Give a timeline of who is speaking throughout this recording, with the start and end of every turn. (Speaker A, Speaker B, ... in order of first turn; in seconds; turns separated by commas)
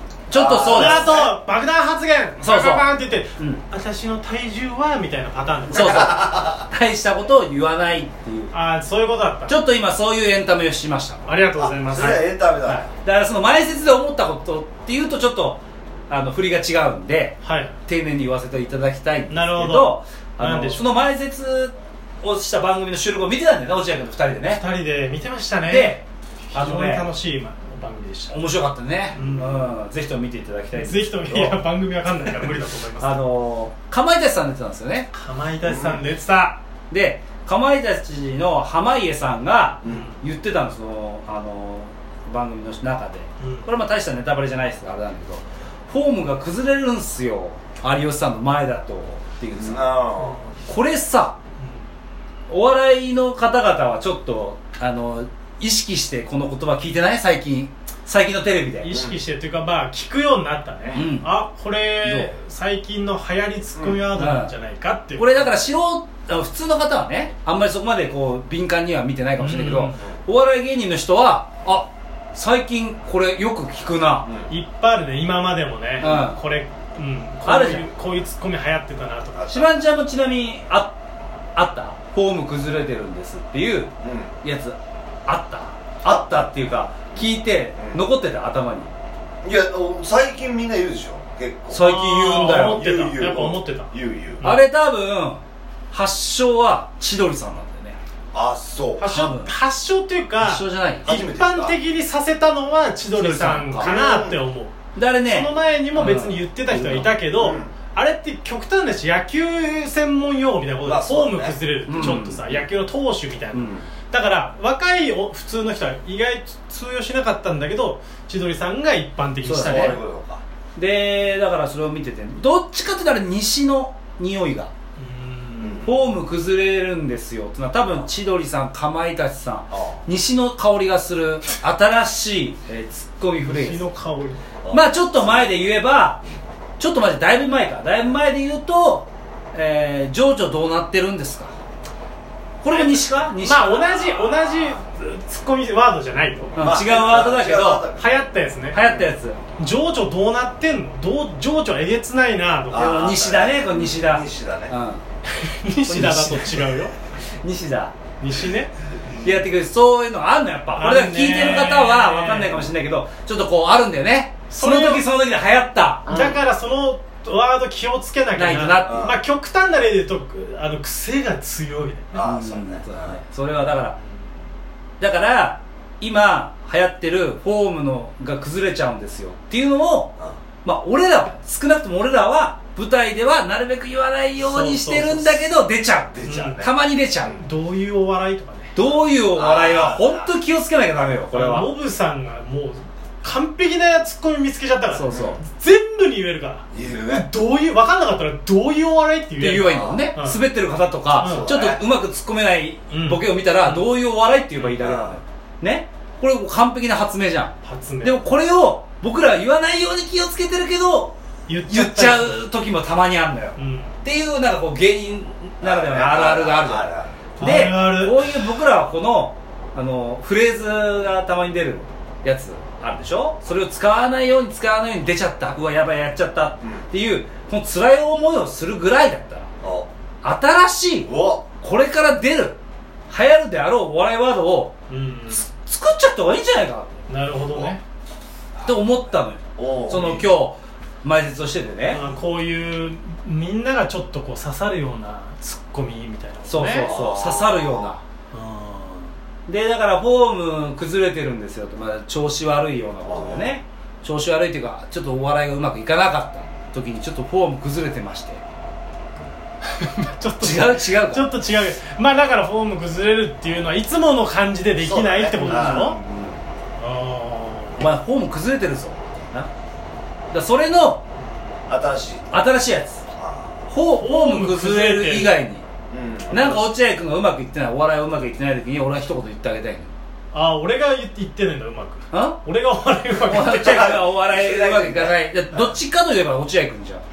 Speaker A: 0.3-1.3, Speaker B: 0.3-1.3, Speaker C: 0.7-6.3, Speaker A: 2.4-3.6, Speaker A: 5.7-8.5, Speaker B: 5.9-6.6, Speaker C: 8.5-9.6, Speaker A: 9.5-11.3, Speaker C: 11.3-12.3, Speaker B: 11.6-12.9, Speaker A: 12.6-24.6, Speaker C: 17.4-17.8, Speaker C: 19.3-20.9, Speaker C: 24.5-26.0, Speaker A: 25.7-27.1, Speaker C: 26.5-28.4, Speaker A: 28.3-31.6, Speaker C: 29.1-29.8, Speaker C: 30.7-33.3, Speaker A: 32.1-35.1, Speaker C: 35.1-36.6, Speaker B: 35.6-36.0, Speaker A: 36.9-50.0, Speaker B: 39.8-40.1, Speaker C: 39.9-40.2, Speaker C: 43.4-43.7, Speaker B: 49.5-50.4, Speaker C: 50.2-50.6, Speaker A: 50.6-51.4, Speaker C: 51.6-51.9, Speaker A: 52.5-59.0, Speaker C: 58.8-65.6, Speaker B: 58.9-59.2, Speaker A: 60.9-61.3, Speaker A: 62.0-62.3, Speaker B: 63.8-64.1, Speaker A: 64.1-64.5, Speaker A: 65.2-74.3, Speaker C: 69.4-70.0, Speaker B: 74.2-74.5, Speaker C: 74.5-79.7, Speaker A: 76.0-76.4, Speaker A: 77.4-77.9, Speaker A: 79.5-81.0, Speaker A: 81.6-83.9, Speaker B: 84.0-84.3, Speaker A: 84.4-88.9, Speaker B: 86.1-86.5, Speaker B: 89.4-94.4, Speaker A: 91.7-92.9, Speaker C: 91.8-94.6, Speaker A: 94.4-98.0, Speaker B: 98.3-99.1, Speaker C: 99.0-120.0, Speaker A: 99.0-99.5, Speaker A: 100.4-101.1, Speaker B: 101.0-101.8, Speaker A: 103.1-104.0, Speaker B: 103.8-104.4, Speaker A: 105.0-107.2, Speaker B: 107.3-107.7, Speaker B: 110.8-111.6, Speaker A: 111.9-112.6, Speaker A: 113.5-113.8, Speaker A: 119.4-120.0, Speaker B: 119.6-120.4, Speaker A: 120.8-124.7, Speaker C: 125.0-125.9, Speaker B: 125.6-126.0, Speaker A: 125.8-133.8, Speaker B: 129.7-130.0, Speaker C: 133.4-134.4, Speaker B: 134.6-135.6, Speaker A: 134.7-136.2, Speaker A: 136.8-141.6, Speaker A: 142.6-144.4, Speaker C: 142.7-146.6, Speaker A: 146.6-147.9, Speaker B: 146.6-149.1, Speaker C: 148.0-148.8, Speaker A: 148.7-149.4, Speaker C: 149.6-153.2, Speaker B: 152.7-154.7, Speaker A: 152.7-155.0, Speaker C: 155.3-156.9, Speaker A: 155.9-156.7, Speaker A: 157.4-157.9, Speaker C: 158.2-158.7, Speaker A: 159.2-166.2, Speaker C: 160.8-162.7, Speaker C: 164.5-165.1, Speaker C: 166.1-172.1, Speaker B: 166.1-166.4, Speaker A: 168.4-169.2, Speaker B: 168.8-169.2, Speaker B: 172.1-173.2, Speaker A: 172.2-174.0, Speaker C: 174.0-174.3, Speaker A: 175.0-187.4, Speaker C: 184.4-185.5, Speaker B: 186.2-186.7, Speaker C: 186.2-186.7, Speaker C: 187.3-188.8, Speaker A: 188.8-191.7, Speaker B: 189.3-190.3, Speaker C: 191.3-200.4, Speaker A: 194.9-195.4, Speaker B: 195.1-195.4, Speaker B: 196.7-197.3, Speaker A: 199.4-211.1, Speaker B: 199.7-200.1, Speaker C: 201.1-201.5, Speaker B: 201.2-201.8, Speaker C: 202.9-203.8, Speaker B: 204.8-205.2, Speaker C: 207.6-208.2, Speaker C: 211.5-212.4, Speaker A: 211.7-229.5, Speaker C: 213.6-214.0, Speaker B: 215.6-217.2, Speaker C: 217.4-218.4, Speaker B: 229.6-229.9, Speaker A: 230.2-232.6, Speaker B: 231.1-231.5, Speaker A: 233.1-234.8, Speaker C: 234.9-235.5, Speaker A: 235.4-237.1, Speaker C: 237.1-237.8, Speaker A: 238.7-242.0, Speaker B: 239.6-240.3, Speaker C: 241.9-246.9, Speaker A: 246.5-248.0, Speaker B: 246.8-248.0, Speaker C: 248.3-249.2, Speaker A: 249.5-258.4, Speaker B: 253.0-253.6, Speaker C: 259.6-266.0, Speaker A: 260.4-261.3, Speaker B: 264.8-266.4, Speaker A: 265.4-266.4, Speaker C: 266.8-267.8, Speaker A: 267.8-269.5, Speaker A: 270.3-271.0, Speaker B: 271.7-272.3, Speaker A: 272.3-273.0, Speaker B: 273.1-273.6, Speaker A: 273.7-275.7, Speaker C: 273.9-275.4, Speaker B: 275.9-276.6, Speaker A: 276.3-279.9, Speaker C: 276.3-276.6, Speaker C: 280.3-284.0, Speaker A: 282.1-282.4, Speaker A: 283.2-287.0, Speaker B: 283.7-285.6